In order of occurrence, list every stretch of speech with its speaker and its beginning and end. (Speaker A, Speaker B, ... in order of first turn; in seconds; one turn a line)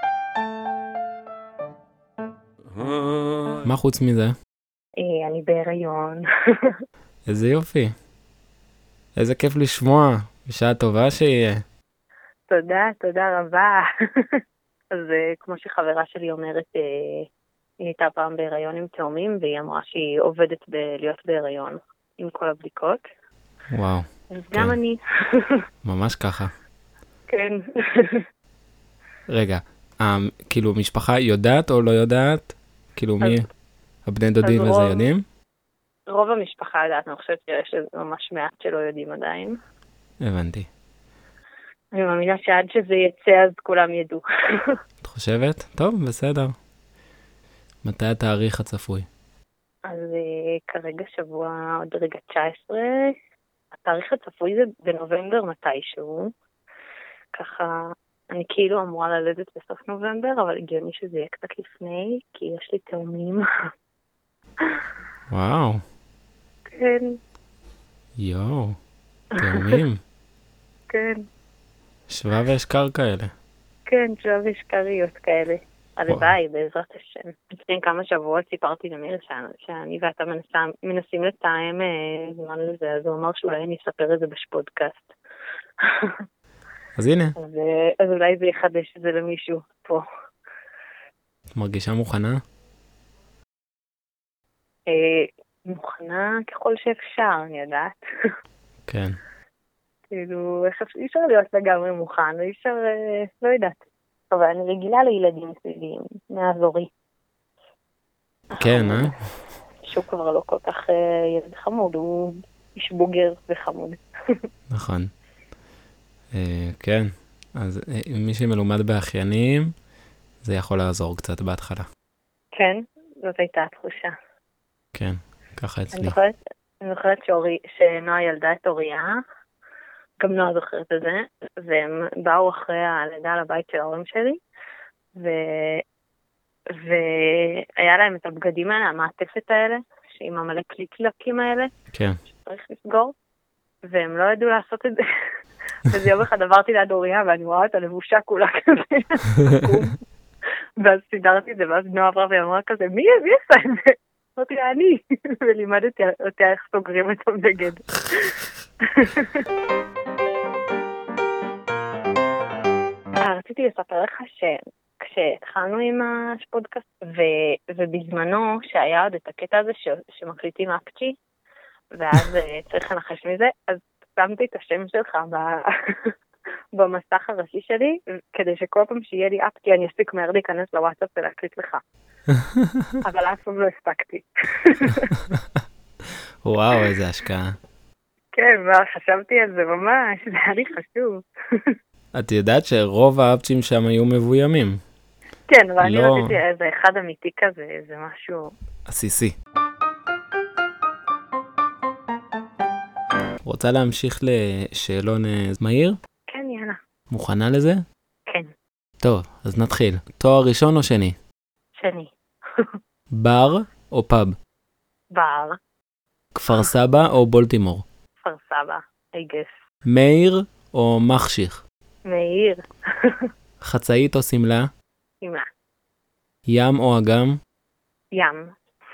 Speaker A: 3.6-4.3
Speaker B: 5.0-6.2
Speaker A: 7.3-7.9
Speaker A: 9.2-11.6
Speaker B: 12.5-14.4
Speaker B: 14.9-17.2
Speaker B: 17.8-23.0
Speaker A: 23.7-24.8
Speaker B: 24.3-25.6
Speaker A: 25.8-26.5
Speaker B: 27.3-28.2
Speaker A: 29.3-33.5
Speaker A: 34.1-35.2
Speaker B: 34.4-35.1
Speaker B: 36.1-39.6
Speaker A: 40.2-40.7
Speaker B: 41.9-44.7
Speaker A: 45.0-46.5
Speaker A: 47.8-49.0
Speaker B: 49.9-53.1
Speaker B: 53.8-56.3
Speaker B: 57.3-63.4
Speaker A: 65.3-65.8
Speaker B: 66.7-67.2
Speaker A: 68.2-68.8
Speaker A: 69.4-70.0
Speaker B: 69.4-69.7
Speaker B: 70.9-71.2
Speaker A: 72.1-73.3
Speaker B: 73.9-85.1
Speaker A: 87.0-87.3
Speaker B: 87.4-90.0
Speaker A: 91.5-92.4
Speaker B: 94.9-98.0
Speaker A: 98.9-99.2
Speaker B: 100.1-103.8
Speaker B: 104.3-106.9
Speaker B: 108.5-109.1
Speaker A: 108.5-109.1
Speaker B: 109.8-114.0
Speaker A: 114.7-115.1
Speaker A: 116.3-119.7
Speaker A: 120.4-121.8
Speaker B: 122.5-124.1
Speaker A: 124.9-126.1
Speaker B: 125.9-129.2
Speaker B: 130.2-134.4
Speaker B: 135.2-135.8
Speaker B: 136.7-141.7
Speaker B: 142.4-143.1
Speaker B: 143.8-145.0
Speaker B: 145.9-149.9
Speaker B: 150.8-158.3
Speaker B: 158.9-159.4
Speaker B: 163.2-171.1
Speaker B: 171.9-176.1
Speaker B: 176.7-181.8
Speaker A: 182.3-182.9
Speaker B: 183.0-185.1
Speaker A: 186.4-187.5
Speaker B: 188.3-191.7
Speaker A: 192.1-194.8
Speaker B: 195.5-198.5
Speaker A: 195.8-196.3
Speaker A: 198.9-199.3
Speaker A: 203.4-206.0
Speaker B: 206.3-206.8
Speaker A: 207.1-207.8
Speaker A: 209.0-211.1
Speaker B: 211.8-212.1
Speaker A: 213.2-214.3
Speaker B: 215.1-215.6
Speaker A: 216.3-217.8
Speaker B: 218.2-219.5
Speaker A: 219.8-221.6
Speaker B: 222.1-223.3
Speaker A: 223.6-224.7
Speaker A: 226.5-227.4
Speaker B: 228.1-228.4